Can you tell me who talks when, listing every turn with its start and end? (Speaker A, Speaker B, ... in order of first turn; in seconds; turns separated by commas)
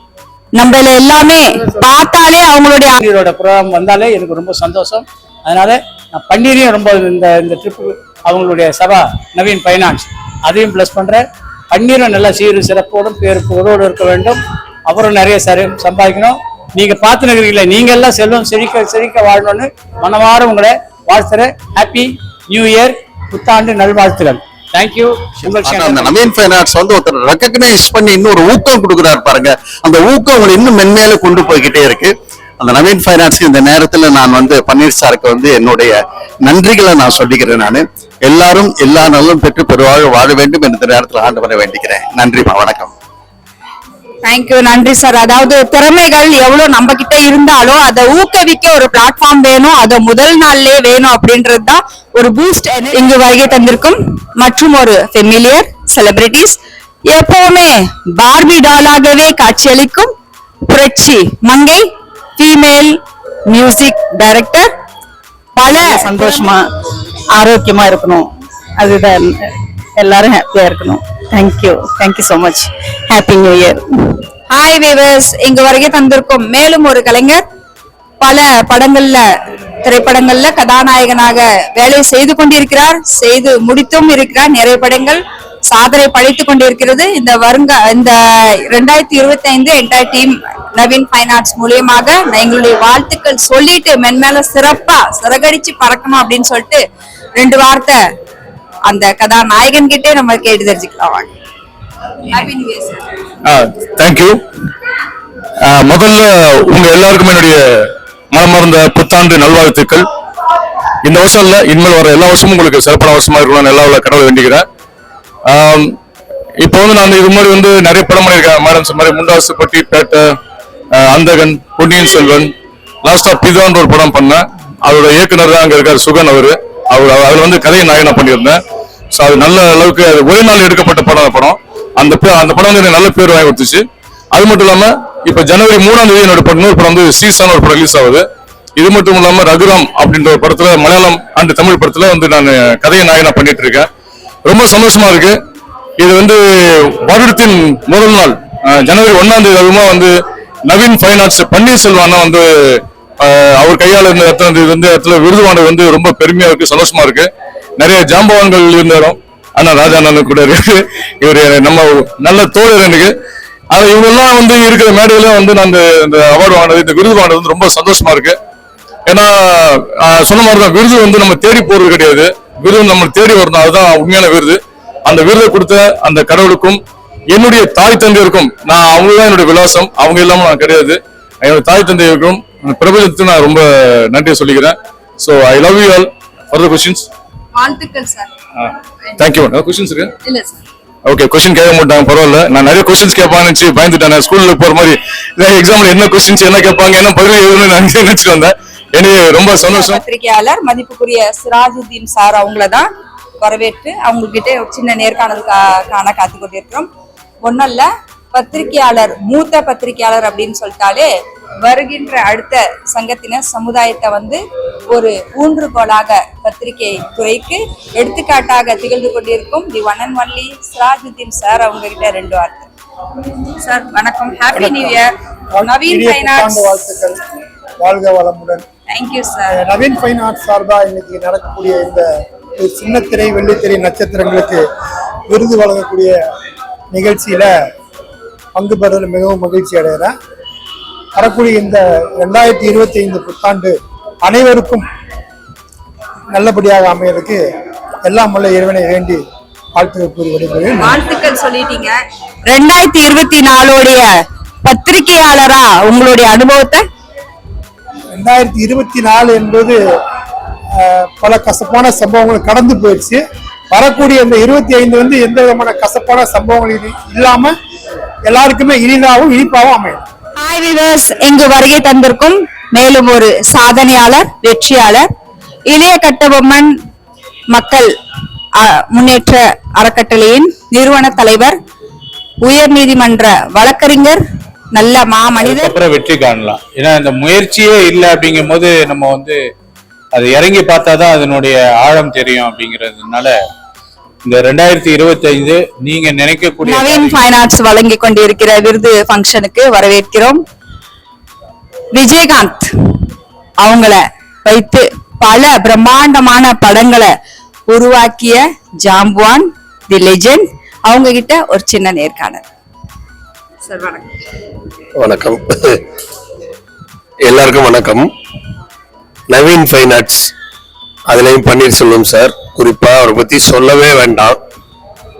Speaker A: 0.5-3.0, Speaker B: 3.0-26.2, Speaker C: 25.5-36.0, Speaker C: 36.5-42.9, Speaker A: 44.2-56.6, Speaker A: 57.1-60.1, Speaker A: 60.7-61.9, Speaker A: 62.4-63.0, Speaker A: 63.5-64.7, Speaker A: 65.5-66.5, Speaker D: 67.4-68.2, Speaker D: 68.8-69.3, Speaker D: 70.0-72.6, Speaker A: 74.5-77.4, Speaker A: 78.2-79.2, Speaker A: 79.8-88.1, Speaker A: 88.7-96.8, Speaker A: 97.3-98.0, Speaker A: 98.9-101.3, Speaker A: 102.3-103.0, Speaker E: 103.4-104.4, Speaker E: 105.6-110.1, Speaker E: 111.0-114.7, Speaker E: 115.5-115.9, Speaker E: 116.6-120.3, Speaker E: 120.9-122.5, Speaker E: 123.0-128.6, Speaker E: 129.1-138.2, Speaker E: 138.8-143.9, Speaker E: 144.4-145.3, Speaker E: 146.0-150.1, Speaker E: 150.7-163.1, Speaker E: 163.7-168.3, Speaker E: 169.1-176.8, Speaker E: 177.3-187.1, Speaker A: 187.5-188.3, Speaker E: 189.2-190.1, Speaker A: 190.2-190.6, Speaker E: 191.0-200.0, Speaker A: 199.5-202.8, Speaker A: 203.4-206.9, Speaker A: 207.4-211.1, Speaker A: 211.6-214.4, Speaker A: 214.9-222.7, Speaker A: 223.6-227.0, Speaker F: 224.5-225.0, Speaker F: 225.5-227.2, Speaker F: 227.8-228.6, Speaker A: 228.9-229.6, Speaker F: 229.5-232.0, Speaker F: 232.6-234.6, Speaker F: 235.3-236.1, Speaker F: 236.9-237.5, Speaker F: 238.6-240.1, Speaker F: 241.1-244.8, Speaker F: 246.3-247.4, Speaker F: 248.0-249.2, Speaker F: 249.7-251.0, Speaker A: 250.8-251.9, Speaker A: 252.5-254.1, Speaker A: 254.6-256.8, Speaker F: 258.1-259.8, Speaker F: 260.8-267.5, Speaker F: 268.3-270.0, Speaker A: 270.4-275.1, Speaker A: 275.7-276.7, Speaker A: 277.5-277.9, Speaker A: 278.6-281.6, Speaker A: 282.4-284.2, Speaker A: 284.7-285.8, Speaker G: 285.5-289.4, Speaker G: 290.1-293.3, Speaker G: 294.2-297.2, Speaker A: 296.6-300.4, Speaker A: 301.9-302.7, Speaker A: 303.6-307.1, Speaker A: 307.7-312.4, Speaker A: 313.6-314.1, Speaker C: 315.0-315.8, Speaker C: 317.2-318.1, Speaker C: 319.3-320.3, Speaker C: 321.1-324.4